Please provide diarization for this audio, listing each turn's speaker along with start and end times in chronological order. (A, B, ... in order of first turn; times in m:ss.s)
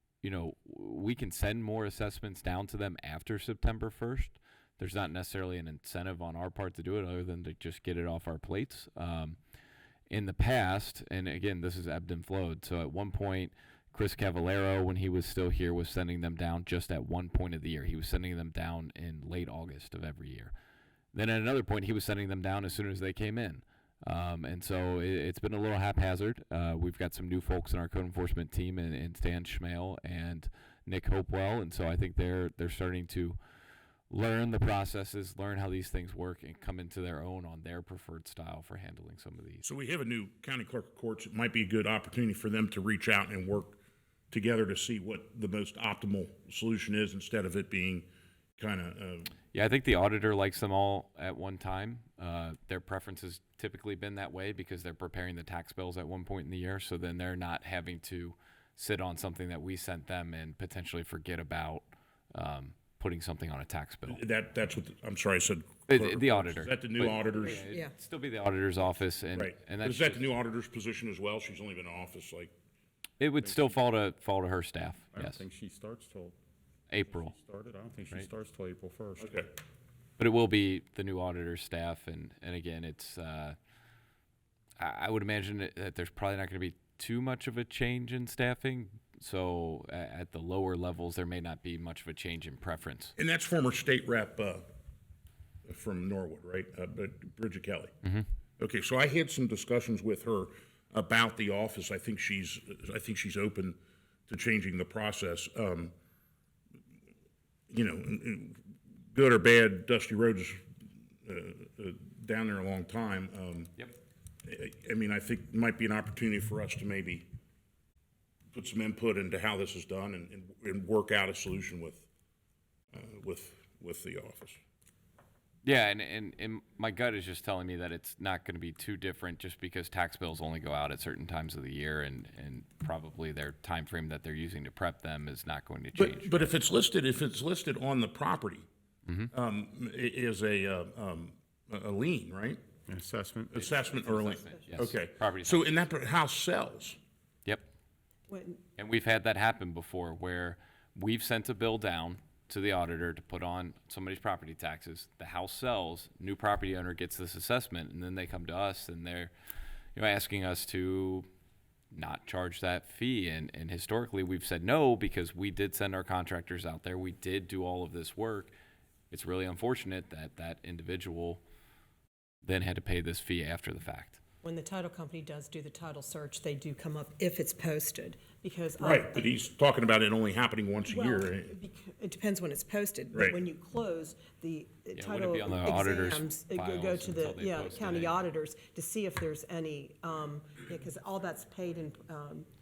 0:00.2-0:09.4 A
0:10.1-0:20.5 A
0:21.1-0:33.4 A
0:34.1-0:39.7 A
0:39.6-0:43.8 B
0:44.3-0:48.1 B
0:48.6-0:49.3 B
0:49.5-1:04.2 A
1:04.1-1:07.6 B
1:05.9-1:10.2 A
1:07.7-1:07.9 C
1:09.3-1:12.5 B
1:13.2-1:15.4 A
1:13.4-1:13.8 D
1:15.1-1:16.4 D
1:16.9-1:17.3 A
1:17.1-1:19.4 D
1:19.2-1:19.5 B
1:20.2-1:23.6 A
1:24.8-1:33.1 A
1:33.2-1:34.6 B
1:35.7-1:37.9 B
1:38.6-1:45.9 B
1:47.7-1:48.6 B
1:49.1-1:50.7 B
1:51.2-1:53.7 B
1:54.4-1:57.2 B
1:58.5-2:02.1 B
2:02.9-2:04.6 B
2:05.6-2:16.5 A
2:16.0-2:18.7 B
2:19.1-2:19.3 A
2:19.3-2:22.6 B
2:22.9-2:23.6 D
2:23.5-2:27.0 B
2:23.6-2:25.8 A
2:28.3-2:28.6 C
2:28.8-2:39.3 A
2:40.0-2:41.3 A
2:41.9-2:48.5 A
2:49.1-2:51.4 A
2:52.4-2:54.2 A
2:54.4-2:59.2 C
2:58.8-3:01.6 B
3:00.9-3:12.5 C
3:03.1-3:03.4 B
3:04.9-3:08.2 A